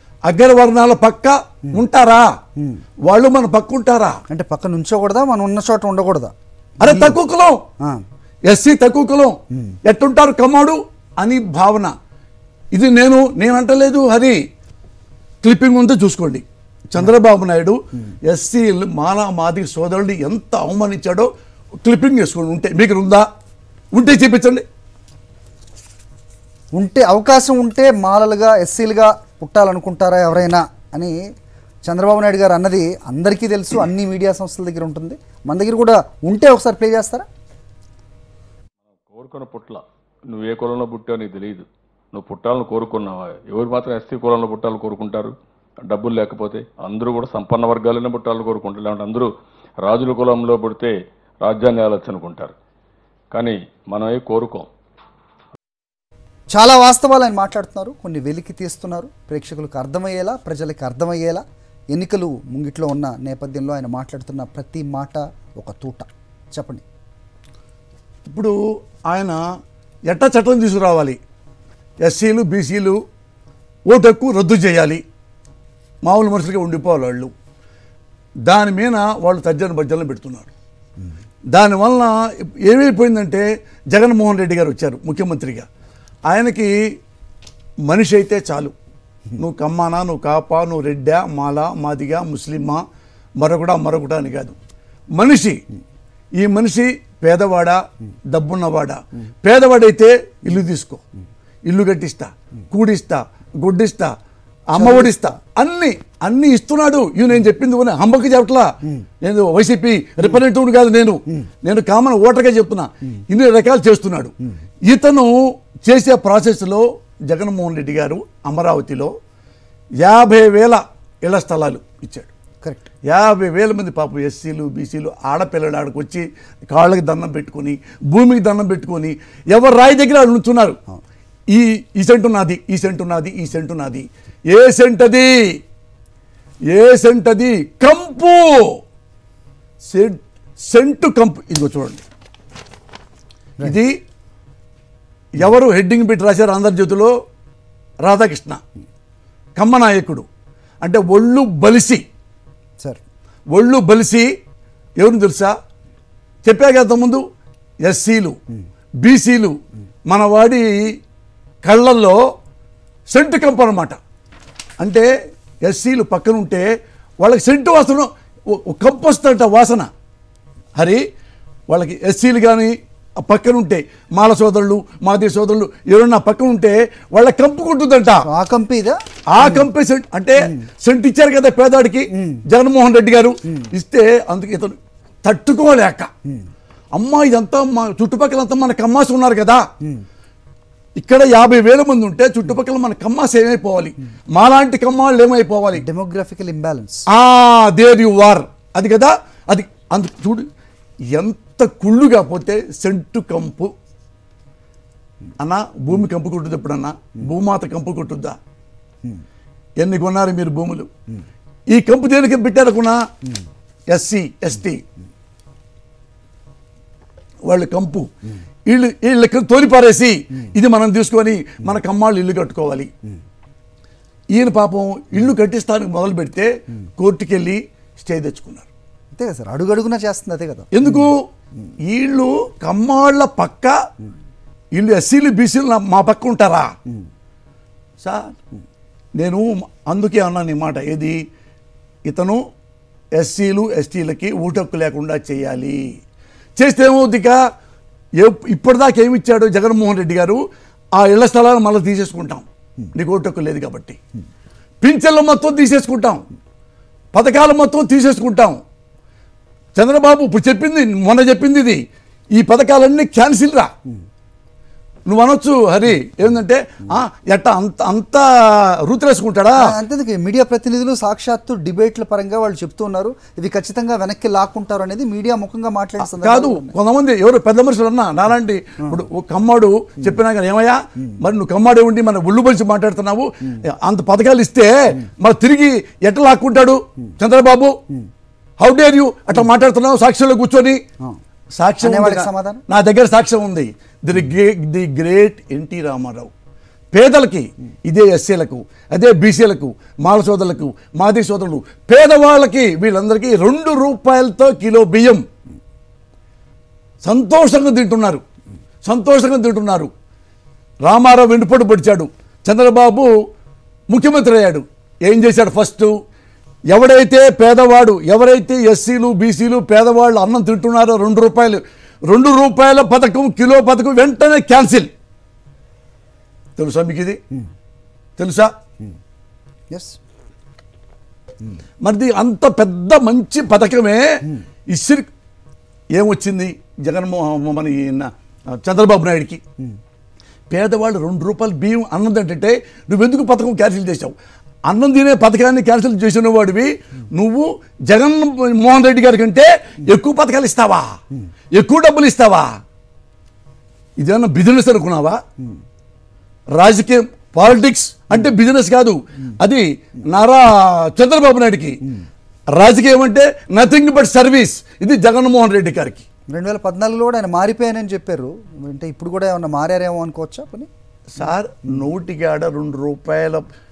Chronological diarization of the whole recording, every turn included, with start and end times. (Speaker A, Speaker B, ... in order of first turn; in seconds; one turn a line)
Speaker A: 0.2-2.3
Speaker A: 3.0-4.2
Speaker B: 4.3-7.1
Speaker A: 6.8-7.6
Speaker A: 8.4-11.9
Speaker A: 12.7-14.4
Speaker A: 15.4-21.3
Speaker A: 21.8-23.2
Speaker A: 23.9-24.6
Speaker B: 26.7-31.1
Speaker B: 31.9-37.2
Speaker C: 39.0-45.3
Speaker C: 45.9-49.3
Speaker C: 49.8-52.5
Speaker C: 53.3-54.7
Speaker B: 56.5-66.8
Speaker A: 68.2-68.5
Speaker A: 69.1-69.4
Speaker A: 70.1-71.2
Speaker A: 72.0-73.0
Speaker A: 73.9-75.0
Speaker A: 76.0-77.3
Speaker A: 78.5-80.5
Speaker A: 81.5-85.7
Speaker A: 86.3-86.7
Speaker A: 87.8-88.7
Speaker A: 89.4-92.8
Speaker A: 93.4-94.5
Speaker A: 95.1-95.6
Speaker A: 96.4-97.8
Speaker A: 98.3-101.0
Speaker A: 101.7-104.1
Speaker A: 104.7-114.3
Speaker B: 104.8-105.2
Speaker A: 114.8-119.1
Speaker A: 120.0-122.3
Speaker A: 123.0-130.8
Speaker A: 131.5-135.5
Speaker A: 136.7-138.7
Speaker A: 139.9-142.0
Speaker A: 143.6-144.0
Speaker A: 145.4-147.1
Speaker A: 148.0-148.6
Speaker A: 149.6-150.2
Speaker A: 150.8-152.0
Speaker A: 153.5-154.3
Speaker A: 155.0-155.5
Speaker A: 156.4-157.2
Speaker A: 157.8-158.3
Speaker A: 159.0-159.5
Speaker A: 160.1-160.9
Speaker A: 161.6-162.2
Speaker A: 163.1-164.0
Speaker A: 164.8-165.1
Speaker A: 165.6-166.7
Speaker A: 167.2-169.9
Speaker A: 170.8-171.0
Speaker A: 171.7-178.2
Speaker B: 178.2-179.7
Speaker A: 179.3-186.1
Speaker B: 182.2-182.4
Speaker A: 186.9-189.6
Speaker A: 191.0-195.8
Speaker B: 195.8-197.0
Speaker A: 197.1-200.4
Speaker A: 201.1-203.7
Speaker A: 205.4-208.4
Speaker A: 209.8-210.9
Speaker A: 211.7-213.0
Speaker A: 213.9-214.8
Speaker A: 217.4-218.1
Speaker A: 218.7-222.9
Speaker A: 224.3-228.7
Speaker B: 229.1-230.7
Speaker A: 230.7-231.2
Speaker A: 231.8-233.8
Speaker A: 234.7-236.7
Speaker A: 238.0-238.3
Speaker A: 239.2-241.2
Speaker A: 242.1-242.4
Speaker A: 243.1-245.8
Speaker A: 246.6-247.4
Speaker A: 248.2-250.4
Speaker A: 250.9-254.0
Speaker A: 254.8-256.2
Speaker A: 257.1-258.6
Speaker A: 259.7-261.8
Speaker A: 262.3-263.7
Speaker A: 265.1-269.7
Speaker B: 269.6-276.7
Speaker A: 276.0-287.7
Speaker A: 288.6-290.8
Speaker A: 291.6-296.3
Speaker B: 291.8-292.6
Speaker A: 296.9-305.2
Speaker A: 307.0-308.2
Speaker A: 308.8-309.9
Speaker A: 310.8-313.1
Speaker A: 313.9-315.9
Speaker A: 316.7-324.9
Speaker A: 326.6-327.2
Speaker A: 328.2-328.5
Speaker B: 329.7-330.0
Speaker A: 331.8-335.1
Speaker A: 335.9-339.4
Speaker A: 340.5-344.1
Speaker A: 344.7-350.9
Speaker A: 351.5-352.5
Speaker A: 354.0-355.2
Speaker A: 356.5-361.8
Speaker A: 362.5-366.0
Speaker B: 366.3-370.7
Speaker A: 371.1-373.4